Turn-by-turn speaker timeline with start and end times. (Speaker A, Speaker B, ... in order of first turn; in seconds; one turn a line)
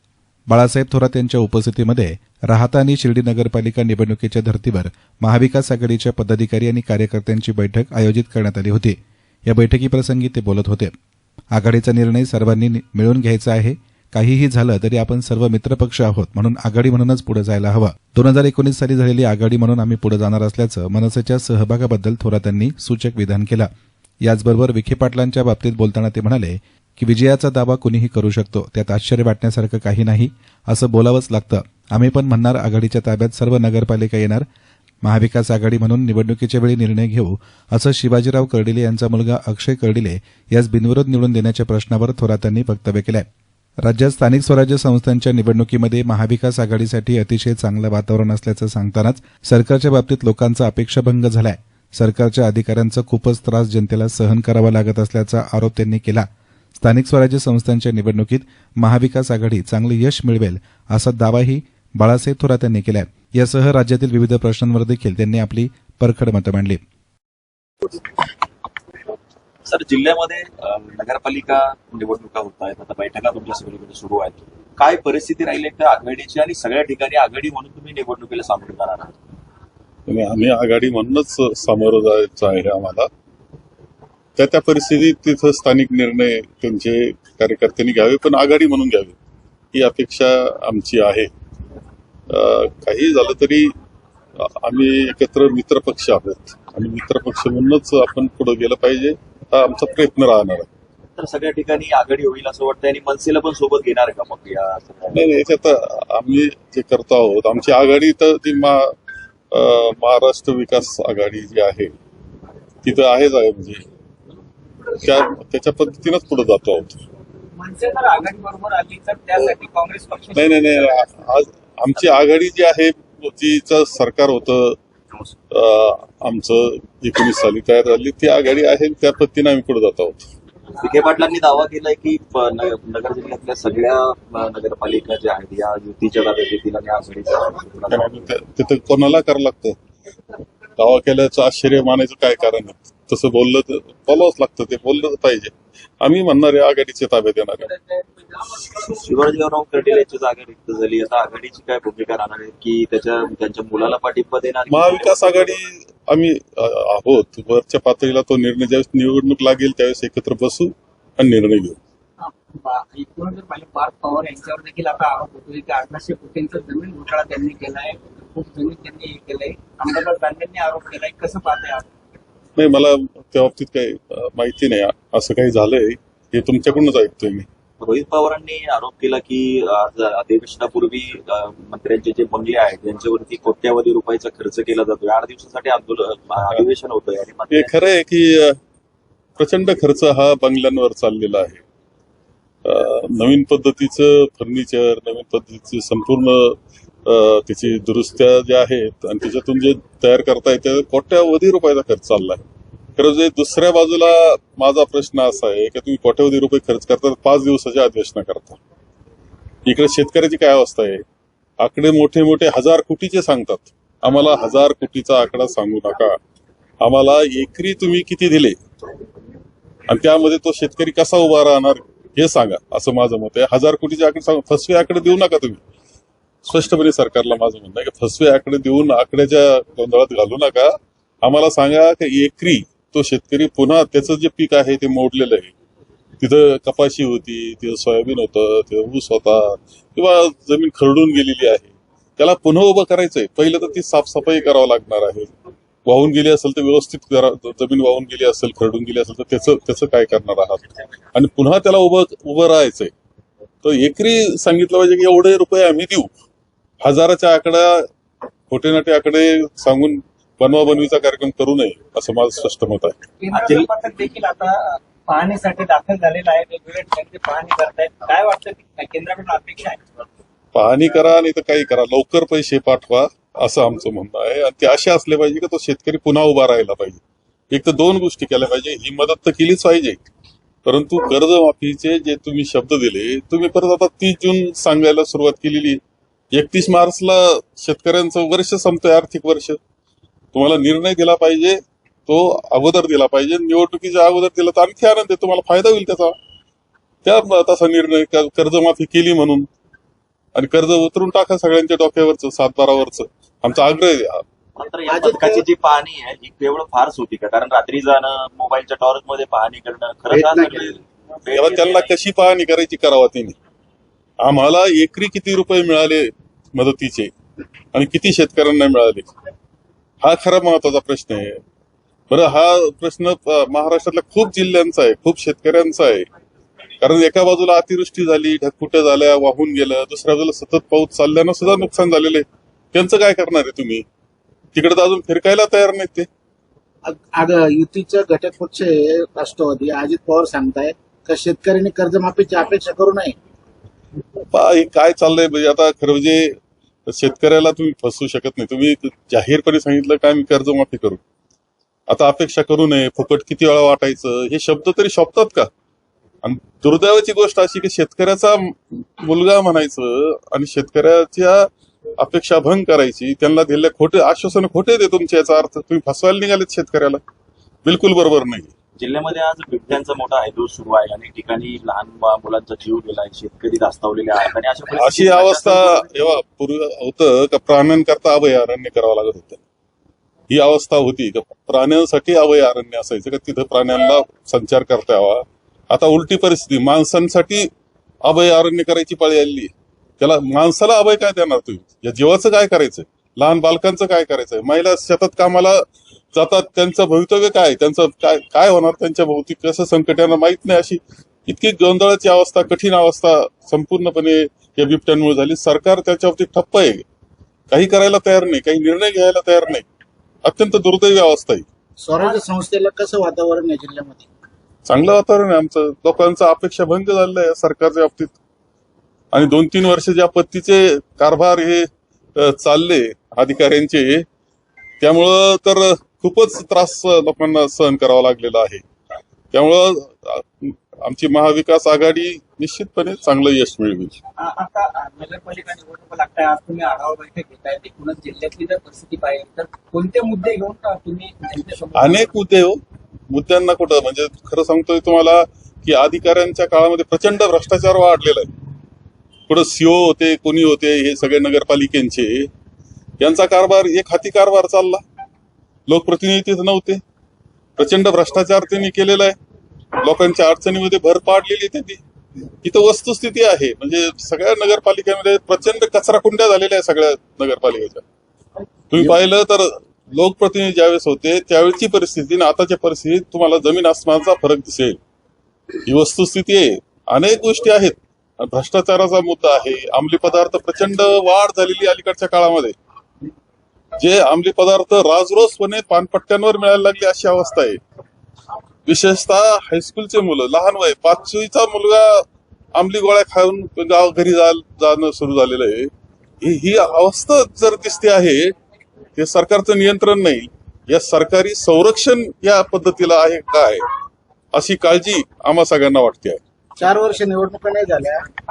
Speaker A: 0.5-10.9
Speaker A: 11.5-23.7
Speaker A: 24.2-34.5
Speaker A: 35.0-43.3
Speaker A: 43.9-56.3
Speaker A: 56.8-66.8
Speaker B: 69.7-79.2
Speaker C: 80.1-83.1
Speaker C: 84.4-89.2
Speaker C: 89.7-91.3
Speaker C: 92.3-93.7
Speaker C: 94.4-100.7
Speaker B: 101.2-105.2
Speaker C: 105.1-108.9
Speaker C: 109.5-111.9
Speaker C: 112.8-113.8
Speaker C: 115.0-117.0
Speaker D: 117.6-121.0
Speaker C: 120.3-124.8
Speaker C: 125.5-130.3
Speaker B: 130.8-138.3
Speaker C: 137.9-139.8
Speaker C: 140.8-147.8
Speaker B: 148.8-155.5
Speaker C: 154.7-161.8
Speaker D: 162.2-171.9
Speaker C: 172.6-177.5
Speaker B: 177.8-187.7
Speaker C: 187.5-188.6
Speaker C: 189.4-191.6
Speaker C: 192.7-202.4
Speaker C: 203.0-208.6
Speaker C: 209.7-211.0
Speaker C: 211.6-216.2
Speaker C: 216.8-218.6
Speaker C: 219.9-225.6
Speaker C: 226.4-235.5
Speaker C: 236.2-245.3
Speaker C: 245.9-252.9
Speaker C: 253.6-256.1
Speaker C: 256.8-257.8
Speaker C: 258.5-263.0
Speaker D: 263.2-269.8
Speaker B: 263.3-263.7
Speaker C: 270.6-277.0
Speaker C: 277.5-280.0
Speaker C: 280.7-285.8
Speaker C: 286.3-289.6
Speaker C: 290.3-296.1
Speaker C: 297.1-299.5
Speaker C: 300.4-304.2
Speaker B: 304.6-311.9
Speaker E: 304.9-305.4
Speaker E: 310.1-310.7
Speaker C: 311.3-313.4
Speaker C: 314.2-317.1
Speaker C: 317.7-319.1
Speaker C: 320.0-321.4
Speaker C: 322.1-326.1
Speaker C: 326.8-333.9
Speaker C: 334.6-336.1
Speaker E: 336.9-343.2
Speaker C: 344.3-346.4
Speaker C: 346.9-351.0
Speaker C: 351.9-355.5
Speaker C: 356.2-361.5
Speaker C: 362.0-367.0
Speaker C: 367.6-368.5
Speaker B: 368.8-376.2
Speaker C: 374.8-379.4
Speaker C: 380.3-387.5
Speaker C: 388.1-395.6
Speaker C: 396.1-406.8
Speaker C: 407.5-409.6
Speaker C: 410.2-411.5
Speaker E: 411.8-414.1
Speaker C: 414.7-418.1
Speaker C: 419.1-421.7
Speaker C: 422.2-424.1
Speaker C: 424.8-428.6
Speaker C: 429.3-434.0
Speaker D: 434.2-442.1
Speaker C: 441.8-442.6
Speaker C: 443.1-448.3
Speaker C: 449.3-452.3
Speaker C: 453.0-454.8
Speaker C: 455.7-456.8
Speaker C: 457.6-459.2
Speaker C: 459.8-461.8
Speaker C: 462.4-467.9
Speaker C: 468.7-474.8
Speaker C: 475.7-482.6
Speaker C: 483.8-487.6
Speaker C: 488.7-495.7
Speaker C: 496.2-498.3
Speaker C: 499.0-503.6
Speaker C: 504.3-506.2
Speaker E: 506.6-508.1